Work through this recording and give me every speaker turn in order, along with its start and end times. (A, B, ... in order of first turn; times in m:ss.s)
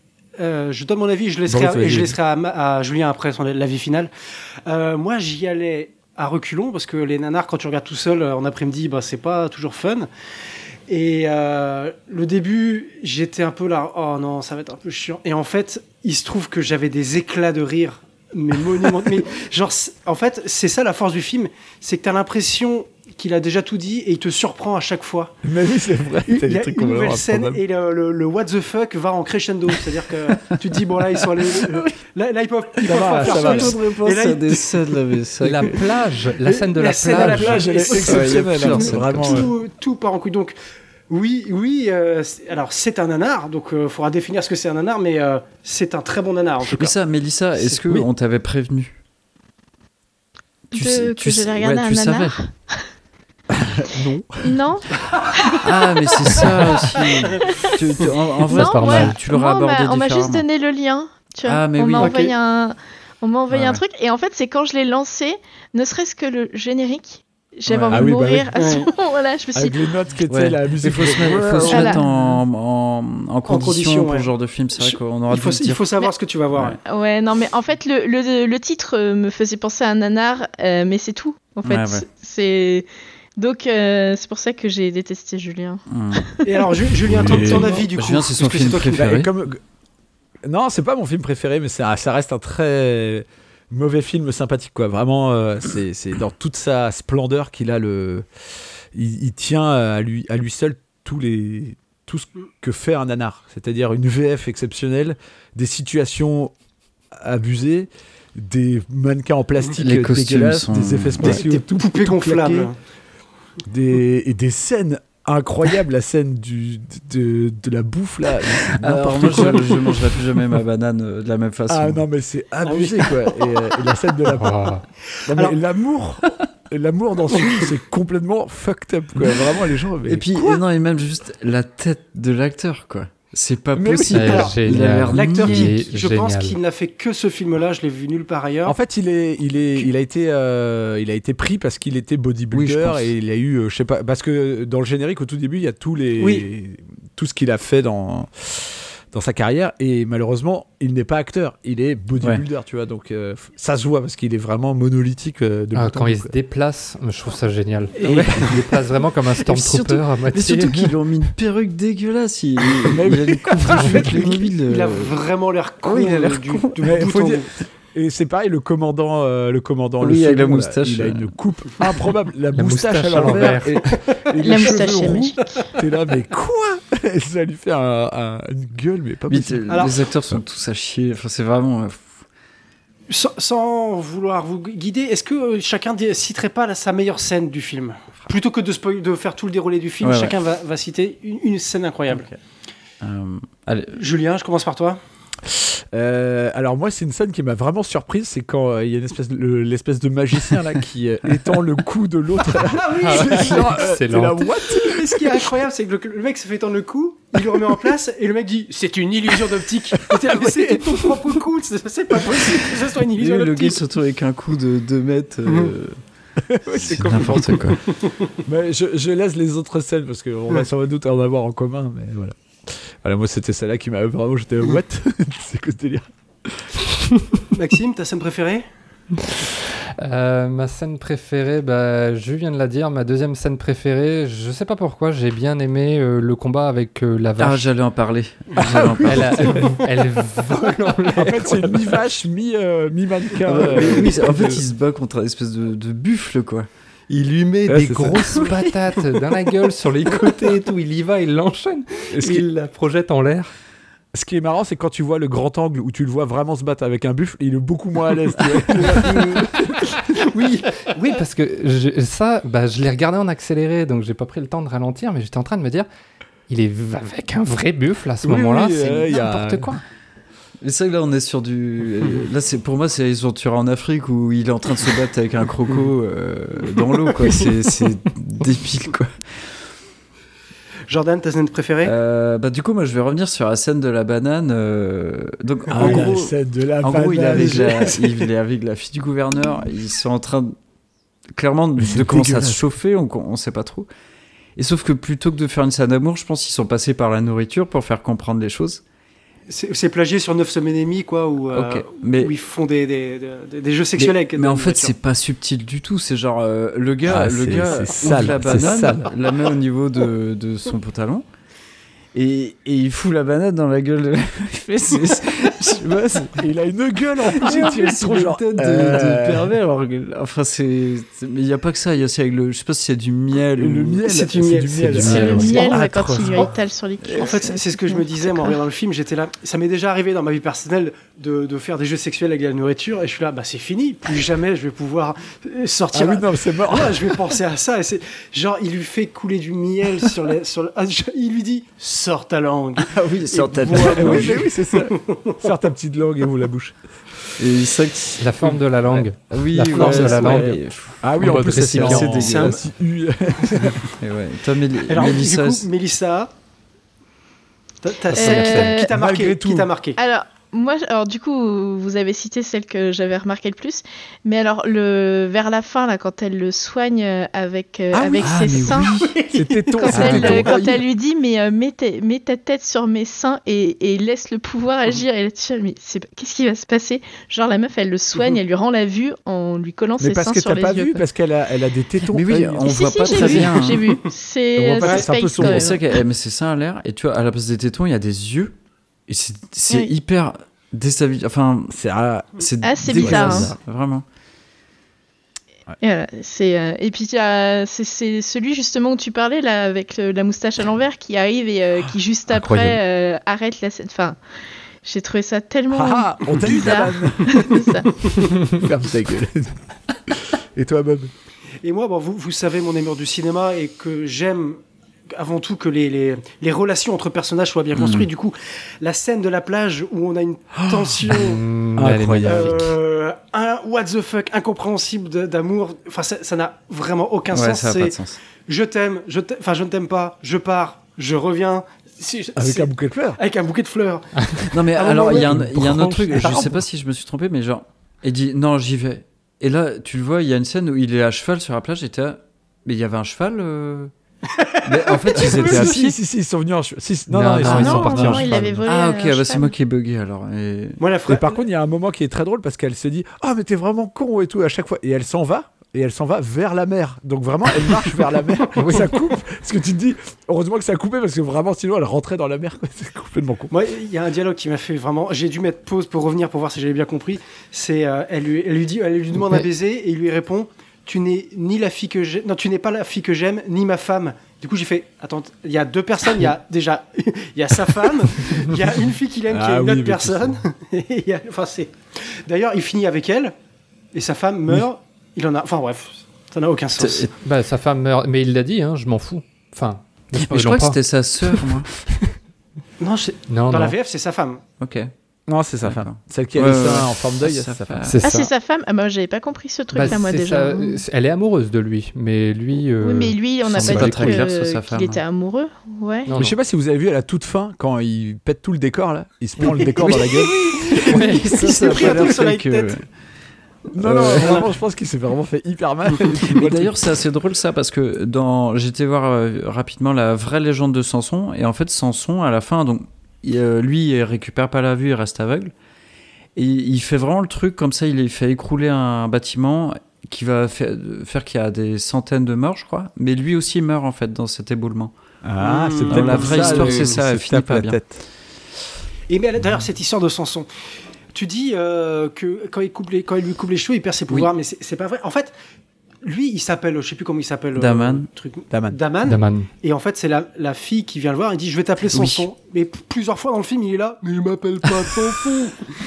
0:00.4-0:04.1 A
0:01.5-0:02.2 B
0:04.6-0:10.1 A
0:10.9-0:25.4 A
0:25.4-0:27.6 B
0:26.3-0:34.8 A
0:32.8-0:33.8 B
0:33.1-0:35.8 C
0:35.4-0:37.7 D
0:36.4-0:40.6 A
0:37.1-0:39.5 B
0:38.0-0:39.4 C
0:41.1-0:46.9 A
0:46.7-0:49.0 C
0:50.7-0:52.9 E
0:50.7-0:52.4 C
0:53.5-0:54.6 B
0:54.4-0:55.6 E
0:55.6-1:00.4 C
0:57.4-0:57.7 E
0:58.4-1:09.8 E
0:58.5-0:59.1 D
1:01.4-1:02.1 C
1:02.0-1:02.3 A
1:03.5-1:03.8 C
1:07.7-1:08.1 C
1:07.9-1:08.5 B
1:08.5-1:08.9 A
1:09.5-1:12.0 B
1:10.3-1:15.8 C
1:11.7-1:12.0 E
1:13.5-1:16.8 A
1:16.8-1:26.7 E
1:21.6-1:22.0 C
1:25.9-1:26.3 C
1:26.4-1:29.1 A
1:27.1-1:27.8 B
1:27.2-1:29.3 C
1:29.0-1:29.6 B
1:30.4-1:38.2 B
1:38.9-1:46.5 B
1:47.2-1:52.7 B
1:49.7-1:51.4 C
1:51.2-1:52.8 A
1:53.6-1:59.8 B
1:58.7-2:02.0 C
2:01.7-2:10.6 B
2:02.6-2:03.9 A
2:04.3-2:04.8 D
2:05.1-2:05.6 A
2:07.3-2:07.7 A
2:10.0-2:15.8 C
2:13.7-2:14.5 B
2:14.1-2:16.6 D
2:15.1-2:18.8 A
2:18.6-2:36.3 B
2:22.5-2:23.1 C
2:26.2-2:26.4 A
2:35.7-2:41.0 D
2:38.0-2:38.6 C
2:38.2-2:38.5 A
2:39.4-2:45.1 C
2:42.8-2:44.5 B
2:44.7-2:47.5 A
2:45.8-2:46.7 C
2:46.8-3:00.4 B
2:50.0-2:51.3 C
2:52.5-2:53.9 D
2:53.9-2:55.8 A
2:54.4-2:55.4 E
2:59.3-3:02.2 C
2:59.7-2:59.9 A
3:03.1-3:12.3 A
3:10.0-3:10.4 C
3:12.1-3:12.4 C
3:13.0-3:14.0 C
3:14.0-3:15.0 A
3:15.4-3:25.4 B
3:22.6-3:23.7 A
3:23.0-3:24.4 D
3:24.8-3:33.8 A
3:29.9-3:31.4 B
3:32.2-3:32.5 B
3:33.2-3:36.0 C
3:36.4-3:37.7 B
3:36.7-3:37.8 C
3:37.7-3:38.3 A
3:38.4-3:46.9 B
3:47.5-3:48.6 A
3:49.2-3:57.7 D
3:57.4-3:59.6 C
3:58.6-3:59.7 B
3:59.0-4:02.0 D
4:01.1-4:04.6 B
4:03.4-4:06.7 C
4:07.1-4:13.5 D
4:07.7-4:09.0 B
4:12.1-4:12.4 B
4:14.1-4:19.7 B
4:20.1-4:21.2 A
4:21.1-4:25.9 D
4:26.5-4:29.8 D
4:28.2-4:29.7 B
4:30.6-4:39.1 C
4:40.9-4:41.9 A
4:41.8-4:50.5 C
4:45.7-4:47.9 B
4:45.8-4:46.0 A
4:47.3-4:48.3 A
4:51.3-4:53.9 C
4:51.8-4:52.6 B
4:54.6-4:58.8 C
4:59.5-5:04.9 A
5:01.5-5:02.3 C
5:04.0-5:11.2 C
5:07.0-5:09.1 B
5:12.1-5:16.4 C
5:16.2-5:19.5 B
5:17.3-5:24.0 C
5:23.6-5:26.3 B
5:24.0-5:25.6 A
5:24.9-5:26.3 C
5:25.1-5:28.6 E
5:25.1-5:26.4 D
5:27.1-5:45.5 A
5:35.9-5:37.2 B
5:42.8-5:44.4 C
5:43.6-5:46.8 B
5:47.4-5:52.6 C
5:48.2-5:50.5 D
5:49.7-5:53.8 B
5:51.2-5:52.3 D
5:52.1-5:52.6 A
5:53.5-5:53.7 A
5:53.9-5:55.7 C
5:54.9-5:56.3 A
5:57.8-6:00.0 A
5:58.1-5:58.8 D
5:58.1-5:58.9 E
5:58.8-5:59.7 B
6:00.0-6:08.9 E
6:08.1-6:09.1 C
6:08.1-6:10.8 B
6:09.0-6:10.3 A
6:09.8-6:21.0 E
6:20.0-6:22.7 B
6:22.1-6:24.0 C
6:22.6-6:25.9 E
6:24.6-6:25.6 B
6:25.3-6:28.5 C
6:29.1-6:31.8 C
6:31.7-6:33.6 B
6:32.3-6:34.0 C
6:32.6-6:33.5 E
6:35.8-6:44.2 E
6:42.3-6:42.8 B
6:44.8-6:48.1 E
6:45.7-6:47.6 B
6:48.2-6:49.6 B
6:50.1-6:51.1 B
6:51.6-6:54.6 A
6:55.1-7:01.4 A
6:57.7-6:58.1 C
7:00.6-7:01.2 B
7:01.1-7:02.8 D
7:01.8-7:02.7 B
7:02.2-7:15.5 A
7:07.3-7:08.2 C
7:12.4-7:13.2 B
7:14.5-7:23.9 C
7:15.1-7:16.4 B
7:24.4-7:25.8 A
7:24.6-7:25.9 C
7:25.1-7:28.5 B
7:27.1-7:28.6 D
7:27.4-7:29.5 E
7:27.5-7:30.8 C
7:30.8-7:31.4 A
7:31.1-7:43.5 B
7:43.5-8:03.3 A
7:59.3-8:00.4 B
8:03.9-8:07.1 A
8:06.8-8:07.1 C
8:07.2-8:12.1 D
8:10.1-8:11.7 C
8:12.8-8:14.4 A
8:13.3-8:13.7 D
8:14.6-8:14.9 C
8:15.3-8:17.9 B
8:15.6-8:18.0 C
8:17.9-8:18.3 D
8:18.0-8:20.8 E
8:19.7-8:24.2 D
8:22.8-8:26.1 E
8:23.5-8:25.0 C
8:26.1-8:26.4 D
8:26.1-8:30.8 B
8:29.5-8:32.8 A
8:30.8-8:32.8 C
8:30.9-8:31.3 D
8:33.7-8:36.7 B
8:33.8-8:34.4 C
8:36.3-8:45.5 C
8:46.4-8:54.9 C
8:55.2-8:58.0 B
8:55.4-8:57.0 A
8:55.9-8:57.8 C
8:59.1-9:00.5 A
9:01.1-9:05.3 A
9:06.0-9:15.7 A
9:07.6-9:08.1 C
9:08.5-9:08.8 B
9:09.0-9:09.5 D
9:11.9-9:12.3 C